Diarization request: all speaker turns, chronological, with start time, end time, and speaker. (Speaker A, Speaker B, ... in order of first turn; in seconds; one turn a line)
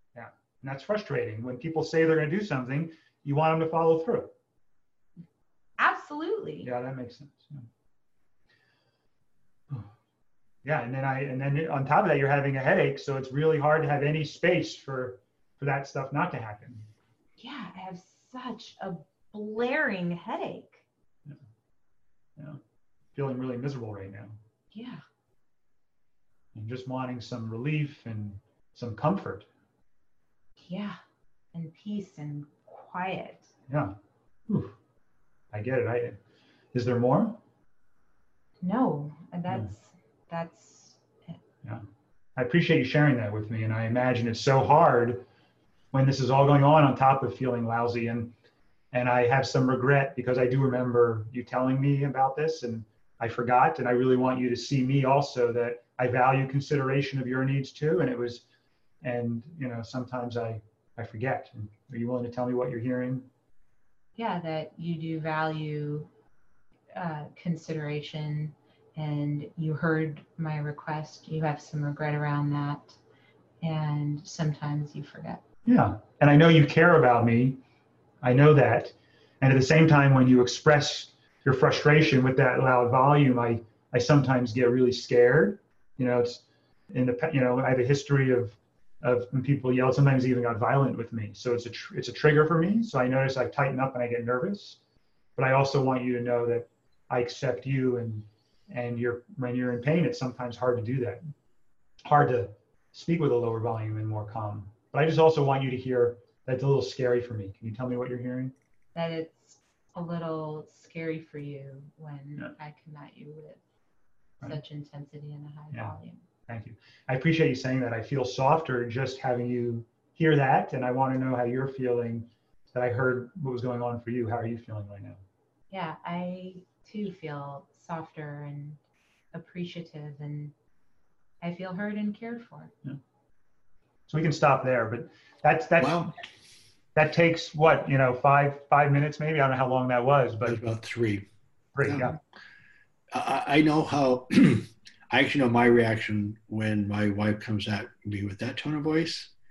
Speaker A: 0.1-4.3
Speaker B: 5.8-6.7
Speaker A: 6.6-7.7
Speaker A: 10.6-16.9
Speaker B: 17.4-20.8
Speaker A: 23.1-24.4
Speaker B: 24.7-25.0
Speaker A: 26.5-29.5
Speaker B: 30.6-31.0
Speaker B: 31.5-33.5
Speaker A: 33.7-33.9
Speaker A: 34.5-34.7
Speaker A: 35.5-36.2
Speaker A: 36.7-37.4
Speaker B: 38.6-41.4
Speaker A: 42.4-45.2
Speaker A: 45.9-48.3
Speaker A: 48.9-58.4
Speaker A: 59.0-63.3
Speaker B: 64.2-66.1
Speaker B: 66.9-73.0
Speaker B: 73.6-75.4
Speaker A: 75.7-77.6
Speaker A: 78.2-94.8
Speaker A: 95.3-101.2
Speaker A: 102.0-108.5
Speaker B: 108.9-113.6
Speaker B: 114.4-116.2
Speaker A: 116.5-125.2
Speaker B: 125.7-128.8
Speaker B: 129.3-130.5
Speaker B: 131.4-132.7
Speaker A: 134.1-136.1
Speaker C: 135.8-136.1
Speaker A: 136.9-140.6
Speaker C: 140.4-141.2
Speaker A: 141.7-142.2
Speaker C: 141.8-142.2
Speaker C: 143.1-149.3